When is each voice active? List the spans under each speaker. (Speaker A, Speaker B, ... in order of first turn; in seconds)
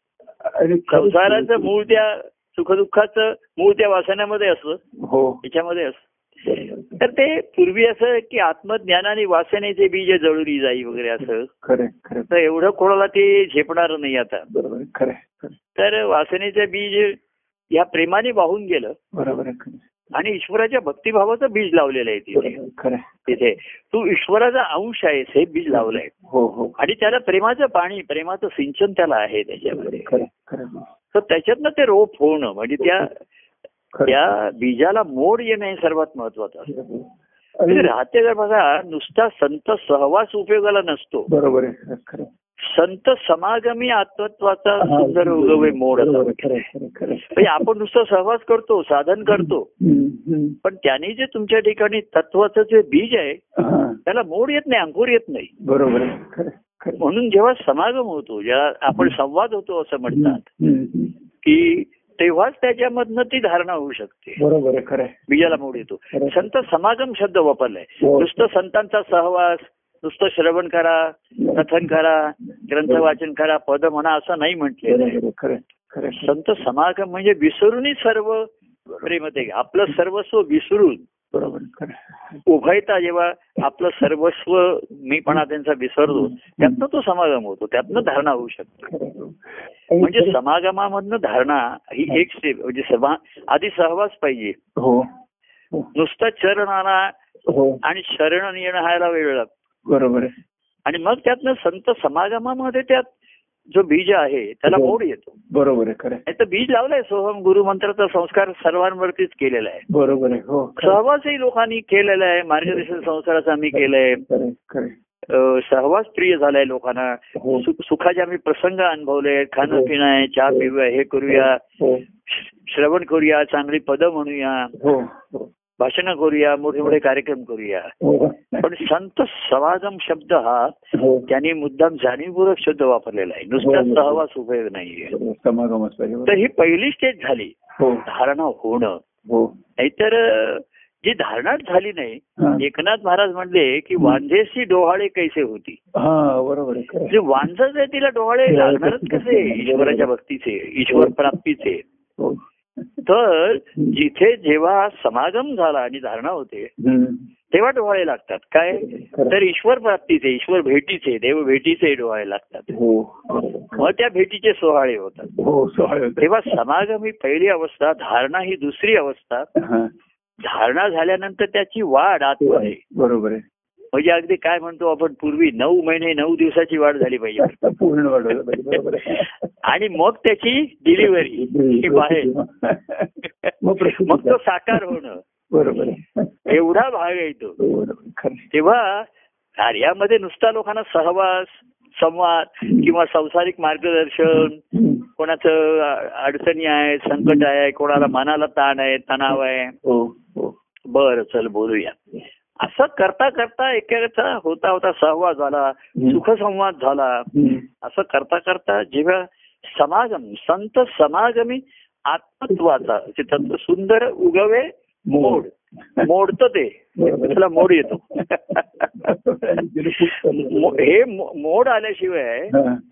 Speaker A: 0.4-1.7, 5.0-5.4, 6.4-7.0, 11.6-12.3, 14.5-15.6, 19.1-19.8, 22.3-23.4, 25.7-26.8, 29.6-30.9, 32.8-33.0, 33.9-34.2, 36.7-37.9, 41.3-42.3, 44.8-47.6, 49.2-50.6, 53.5-54.0, 55.6-57.0, 60.1-61.1, 64.4-65.2, 66.1-66.4, 68.0-68.3, 71.4-71.8, 74.8-76.3, 81.3-82.4, 86.1-86.8, 88.9-90.4, 94.8-95.1, 97.5-97.8, 99.8-100.3, 104.7-104.9, 105.5-106.2, 109.9-111.0, 113.7-114.9, 117.3-117.7, 119.6-119.9, 121.3-122.0, 124.8-125.5, 128.0-128.7, 130.9-131.3, 133.6-134.2, 135.1-136.4, 137.8-138.0, 139.2-139.5, 142.4-142.6, 145.9-147.2, 148.5-150.1, 150.9-151.4, 152.2-152.8, 156.8-157.2, 158.7-159.3, 162.7-163.9, 165.3-166.6, 169.6-169.9, 172.4-173.4, 177.4-179.5, 181.0-184.9, 185.5-186.5, 187.6-188.5, 194.3-195.0, 197.2-197.4, 199.8-200.5, 205.9-206.2, 207.3-207.6, 212.5-212.8, 215.1-215.4, 217.0-220.9, 222.5-222.8
Speaker B: 0.9-4.8, 5.4-6.0, 7.0-11.5, 12.3-14.5, 15.8-17.2, 17.7-19.0, 20.1-22.6, 23.3-26.1, 26.8-30.1, 31.1-33.2, 34.0-36.7, 37.7-41.3, 42.6-46.6, 47.3-49.7, 50.6-53.4, 54.0-55.5, 57.0-60.5, 61.4-64.4, 65.3-75.2, 76.2-81.0, 82.5-88.9, 90.0-94.6, 95.9-97.1, 97.8-99.5, 100.8-103.1, 103.7-105.3, 106.2-109.8, 110.8-114.2, 115.3-121.6, 122.3-124.7, 125.8-127.9, 128.6-135.2, 136.2-139.0, 139.8-145.8, 147.1-151.8, 153.0-156.7, 157.5-162.7, 163.8-165.3, 166.2-169.5, 170.4-172.8, 173.9-177.6, 179.6-182.3, 183.4-185.2, 186.5-187.6, 188.5-189.1, 189.6-194.6, 195.2-199.7, 200.9-202.0, 202.6-207.3, 207.8-219.1, 220.0-222.5